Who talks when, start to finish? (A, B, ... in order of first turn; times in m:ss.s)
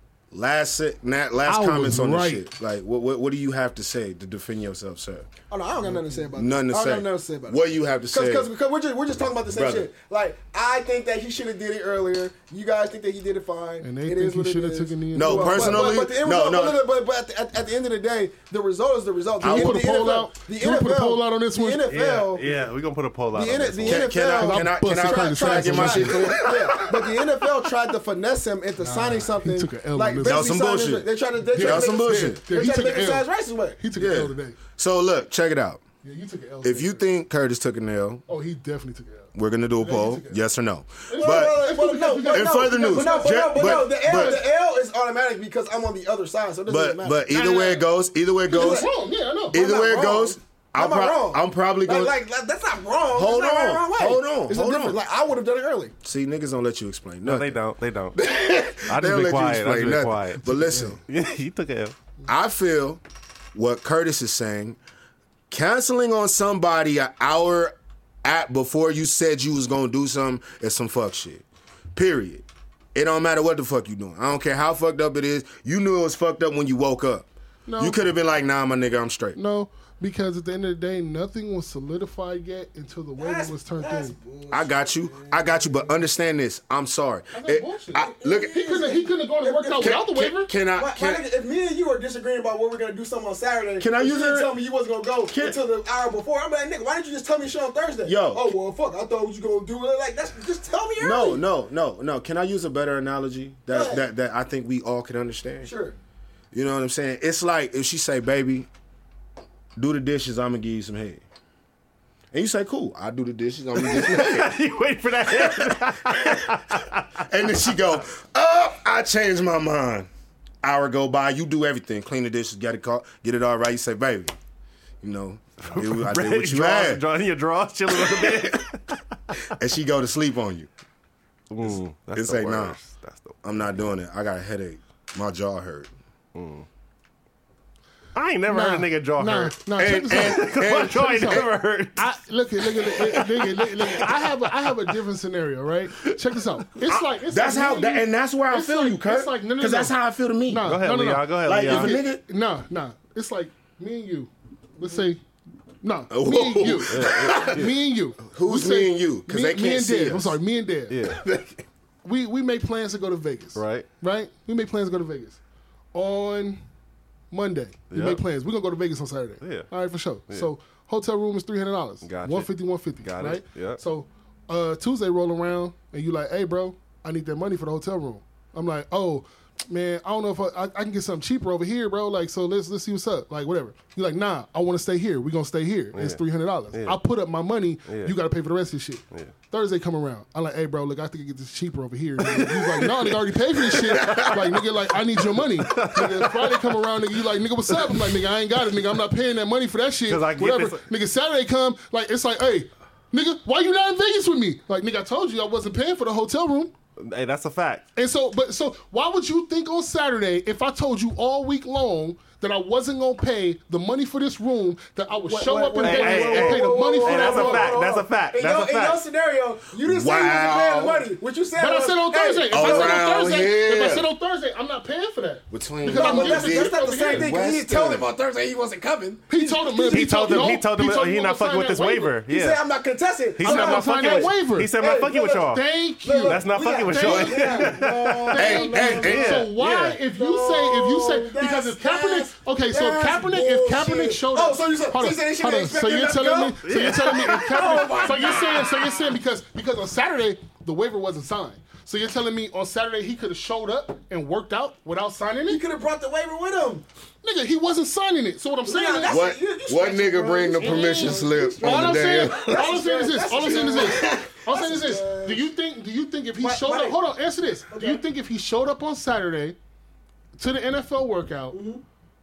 0:00.3-0:05.3 A
0:01.4-0:02.4 B
0:05.5-0:22.5 C
0:05.9-0:06.3 B
0:06.3-0:08.5 A
0:09.5-0:09.9 A
0:13.8-0:16.0 B
0:15.1-0:16.8 A
0:19.4-0:19.8 A
0:19.4-0:21.9 B
0:21.8-0:24.1 D
0:23.3-0:33.8 C
0:23.8-0:27.2 A
0:24.2-0:26.4 B
0:28.8-0:30.5 B
0:30.2-0:32.4 A
0:31.4-0:33.3 B
0:33.8-0:34.6 B
0:34.0-0:35.8 A
0:36.0-0:37.0 B
0:36.6-0:38.2 A
0:38.3-0:40.4 B
0:39.3-0:41.7 A
0:41.1-0:44.4 B
0:41.1-0:47.5 C
0:42.3-0:44.4 A
0:46.7-0:48.8 A
0:47.3-0:47.8 B
0:48.5-0:49.6 B
0:48.5-0:48.9 C
0:49.5-0:52.2 A
0:49.5-0:55.9 C
0:53.1-0:55.0 A
0:56.0-0:57.6 A
0:57.2-0:58.2 D
0:58.1-1:01.0 A
0:58.8-1:01.9 D
1:00.4-1:01.0 B
1:02.3-1:03.0 A
1:03.5-1:04.8 A
1:05.5-1:19.4 A
1:17.6-1:18.0 B
1:19.3-1:24.1 B
1:23.2-1:25.9 C
1:24.5-1:28.7 A
1:27.3-1:30.5 B
1:28.0-1:30.0 C
1:29.8-1:31.2 A
1:30.7-1:41.4 C
1:33.8-1:34.5 A
1:35.3-1:35.6 A
1:38.0-1:38.4 A
1:41.0-1:45.7 A
1:43.7-1:44.0 C
1:45.6-1:46.0 C
1:46.5-1:48.7 A
1:49.8-1:51.2 A
1:52.3-1:54.6 A
1:53.8-1:57.1 D
1:55.3-1:56.5 A
1:57.3-2:00.1 A
2:00.6-2:04.3 A
2:05.0-2:07.0 A
2:05.6-2:09.4 D
2:07.9-2:08.6 A
2:09.5-2:10.7 A
2:11.5-2:13.6 D
2:11.6-2:12.8 A
2:13.4-2:15.9 A
2:16.3-2:16.6 D
2:18.1-2:19.6 D
2:18.5-2:30.0 B
2:19.8-2:21.5 A
2:20.1-2:24.7 D
2:26.8-2:30.7 A
2:30.5-2:35.2 B
2:30.6-2:32.0 D
2:31.4-2:32.2 A
2:35.8-2:41.0 B
2:36.1-2:37.7 A
2:36.9-2:37.7 D
2:38.2-2:40.4 A
2:40.9-2:41.2 D
2:41.2-2:41.6 A
2:42.0-2:45.4 B
2:43.6-2:43.9 D
2:45.9-2:46.6 B
2:47.3-3:26.7 B
2:47.9-2:48.2 D
2:49.4-2:49.7 D
2:52.0-2:53.8 D
3:05.9-3:06.2 D
3:07.9-3:08.1 D
3:12.3-3:13.0 D
3:13.8-3:14.4 A
3:15.6-3:16.7 D
3:20.1-3:20.8 D
3:27.0-3:27.8 D
3:28.0-3:37.8 B
3:35.2-3:43.1 C
3:35.8-3:39.0 D
3:39.8-3:41.1 A
3:41.6-3:47.3 B
3:42.5-3:44.1 A
3:45.5-3:48.1 A
3:45.9-3:50.5 C
3:49.3-3:52.2 B
3:49.9-3:52.6 D
3:52.2-3:59.4 C
3:53.4-3:55.6 D
3:53.4-3:54.7 B
3:55.4-4:15.6 B
3:56.2-4:00.0 D
3:58.3-3:59.4 A
4:00.1-4:09.0 C
4:06.6-4:08.9 D
4:15.5-4:16.8 C
4:17.2-4:19.2 B
4:18.6-4:25.5 C
4:19.1-4:22.7 A
4:20.6-4:29.6 B
4:26.4-4:27.0 C
4:27.7-4:28.0 C
4:30.4-4:31.6 B
4:31.5-4:31.8 C